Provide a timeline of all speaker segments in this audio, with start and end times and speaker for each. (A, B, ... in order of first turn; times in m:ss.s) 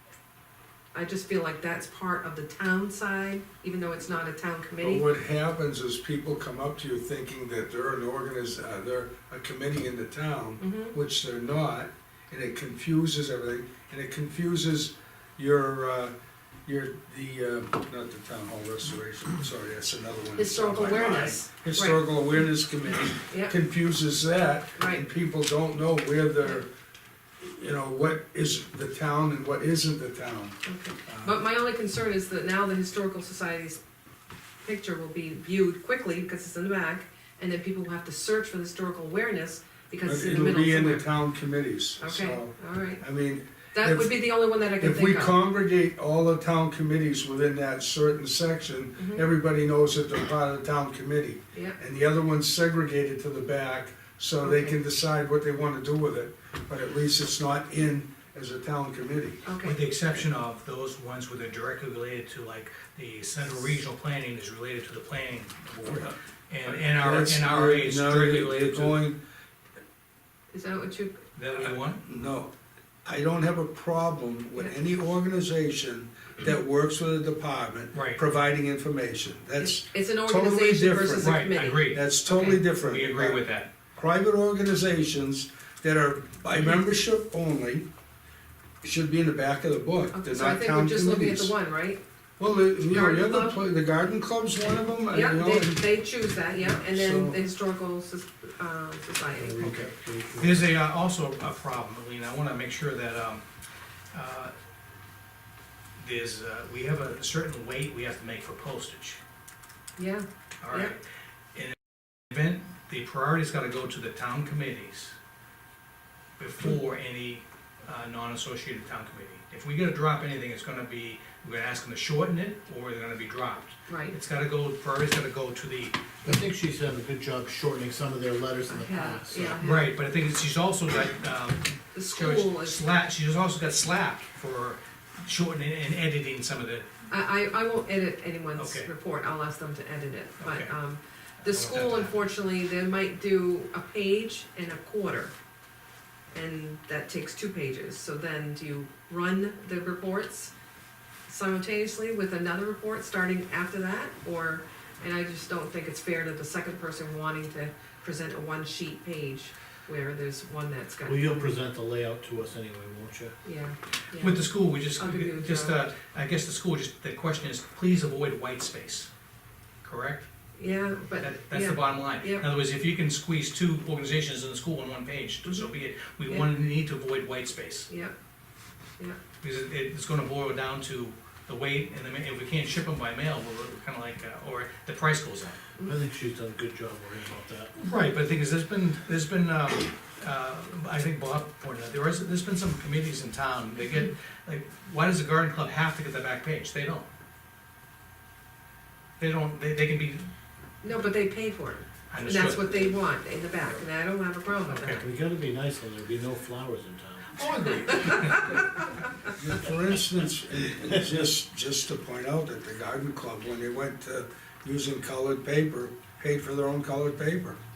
0:00.9-0:05.1 A
0:04.8-0:16.1 B
0:10.6-0:11.0 A
0:16.7-0:26.7 B
0:20.4-0:22.0 A
0:24.8-0:25.0 A
0:27.4-0:31.4 B
0:30.7-0:33.8 A
0:34.6-0:41.0 A
0:40.1-0:59.4 B
0:42.0-0:43.0 A
0:43.7-0:45.3 A
0:49.0-0:49.2 A
0:54.4-0:54.7 A
0:59.4-0:59.8 A
0:59.6-1:09.0 C
1:06.8-1:09.2 B
1:10.5-1:11.3 A
1:11.4-1:12.0 C
1:12.0-1:12.5 B
1:13.0-1:23.4 B
1:17.9-1:18.2 C
1:19.6-1:22.6 A
1:21.2-1:23.7 C
1:23.9-1:27.9 B
1:28.8-1:31.5 B
1:30.1-1:32.0 A
1:32.4-1:35.8 B
1:32.9-1:33.6 A
1:35.1-1:39.8 A
1:36.6-1:37.4 B
1:39.3-1:40.7 D
1:39.6-1:43.4 C
1:44.1-1:44.5 C
1:46.0-1:49.2 C
1:50.0-1:50.9 A
1:50.6-1:51.0 C
1:51.5-1:55.2 C
1:56.4-2:06.2 C
2:03.9-2:04.2 A
2:06.2-2:09.6 D
2:08.7-2:09.9 A
2:09.6-2:16.9 C
2:11.9-2:12.8 A
2:17.1-2:25.3 A
2:18.6-2:18.9 C
2:20.4-2:20.7 C
2:21.4-2:22.2 C
2:26.3-2:30.5 A
2:31.3-2:41.5 A
2:41.0-2:43.4 D
2:43.4-2:45.9 A
2:44.2-2:49.1 C
2:49.8-2:50.3 C
2:50.6-2:52.5 A
2:51.2-2:57.9 C
2:57.9-2:58.2 A
2:59.4-3:05.6 C
3:05.8-3:07.7 D
3:07.8-3:17.1 C
3:19.2-3:20.3 C
3:20.8-3:25.1 A
3:22.1-3:22.9 C
3:24.7-3:25.0 C
3:24.9-3:28.6 D
3:27.5-3:28.6 C
3:28.1-3:28.6 A
3:29.4-3:37.6 B